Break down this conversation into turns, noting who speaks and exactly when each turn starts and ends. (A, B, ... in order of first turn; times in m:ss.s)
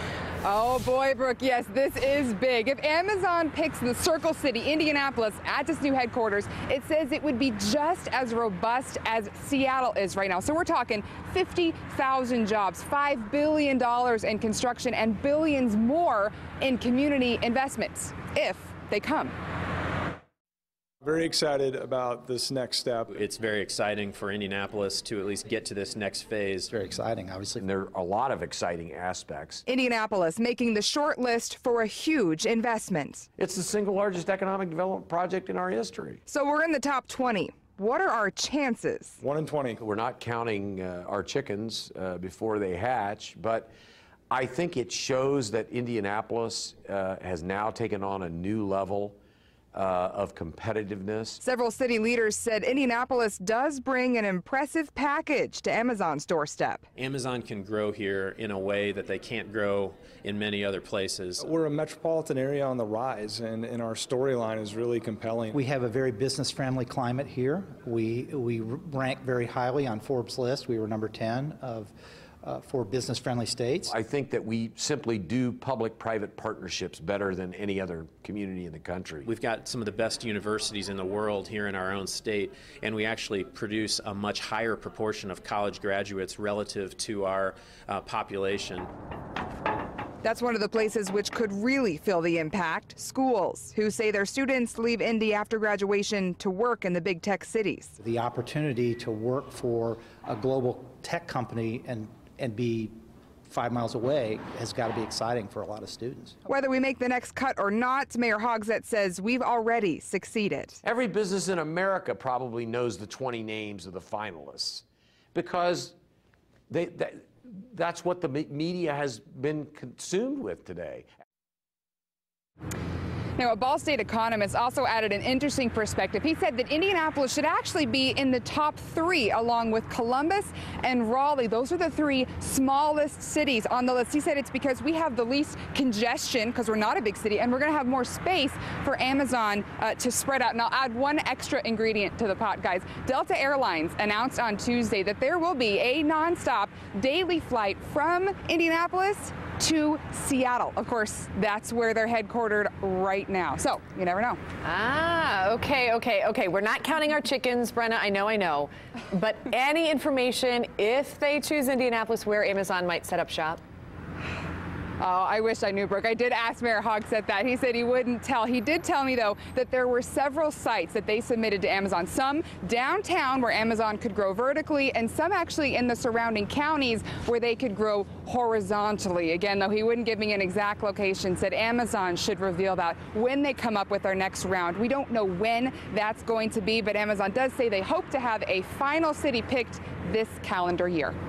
0:00.4-0:19.3 A
0:21.0-0:23.1 B
0:23.1-0:26.7 C
0:26.7-0:27.6 D
0:27.6-0:29.6 E
0:29.7-0:33.3 A
0:33.4-0:36.2 E
0:36.3-0:39.2 A
0:39.2-0:39.8 B
0:39.8-0:43.7 E
0:44.3-0:49.2 E
0:49.7-0:51.4 E
0:51.4-0:56.8 A
0:57.0-1:01.4 C
1:01.4-1:05.6 B
1:05.5-1:13.9 D
1:13.9-1:19.3 E
1:19.2-1:28.9 C
1:30.2-1:38.0 A
1:38.0-1:42.9 D
1:43.5-1:46.4 D
1:46.5-1:50.8 A
1:50.8-1:56.0 E
1:56.7-2:01.1 E
2:03.4-2:34.4 A
2:34.6-2:43.6 F
2:45.0-3:11.1 A